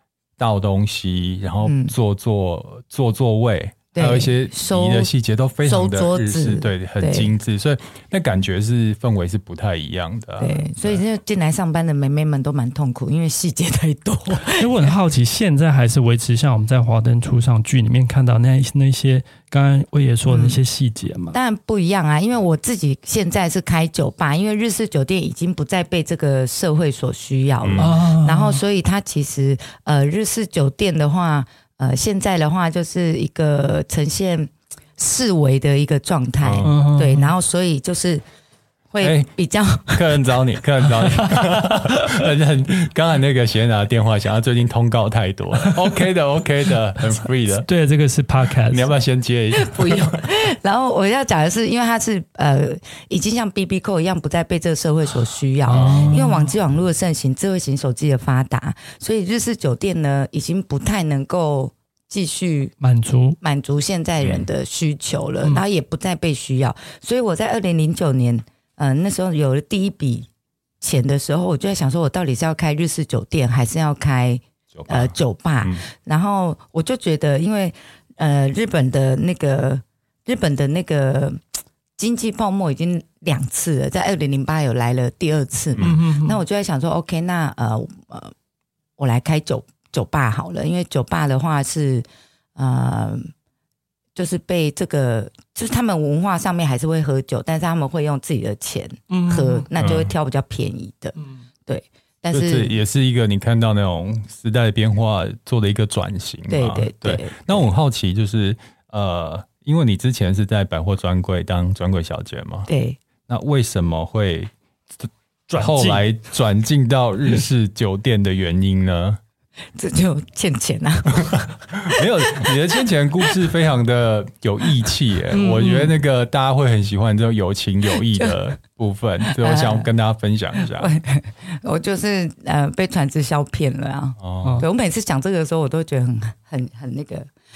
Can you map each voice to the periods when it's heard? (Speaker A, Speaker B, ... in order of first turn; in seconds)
Speaker A: 0.4-11.0, 27.6-27.9, 36.4-36.8, 39.0-39.3, 39.9-47.7, 48.7-50.2, 55.7-56.3, 64.2-64.5, 74.7-75.8, 85.8-86.0, 99.8-100.1, 102.3-112.7, 113.3-119.2, 121.2-130.9, 134.2-134.6
Speaker B: 1.6-1.9, 3.9-5.1, 5.6-7.3, 10.4-14.9, 20.3-20.6, 21.3-38.2, 38.9-40.3, 49.5-62.8, 63.4-70.3, 70.8-81.4, 82.0-88.3, 89.0-93.3, 94.2-102.7, 106.5-107.7, 112.7-113.0, 119.8-122.5, 129.2-129.9, 130.6-137.3
Speaker C: 14.5-21.4, 27.8-28.6, 36.6-37.3, 41.2-41.9, 45.6-45.9, 47.7-48.9, 55.7-56.5, 62.8-63.4, 85.8-86.4, 99.1-99.7, 115.5-116.0, 125.3-126.0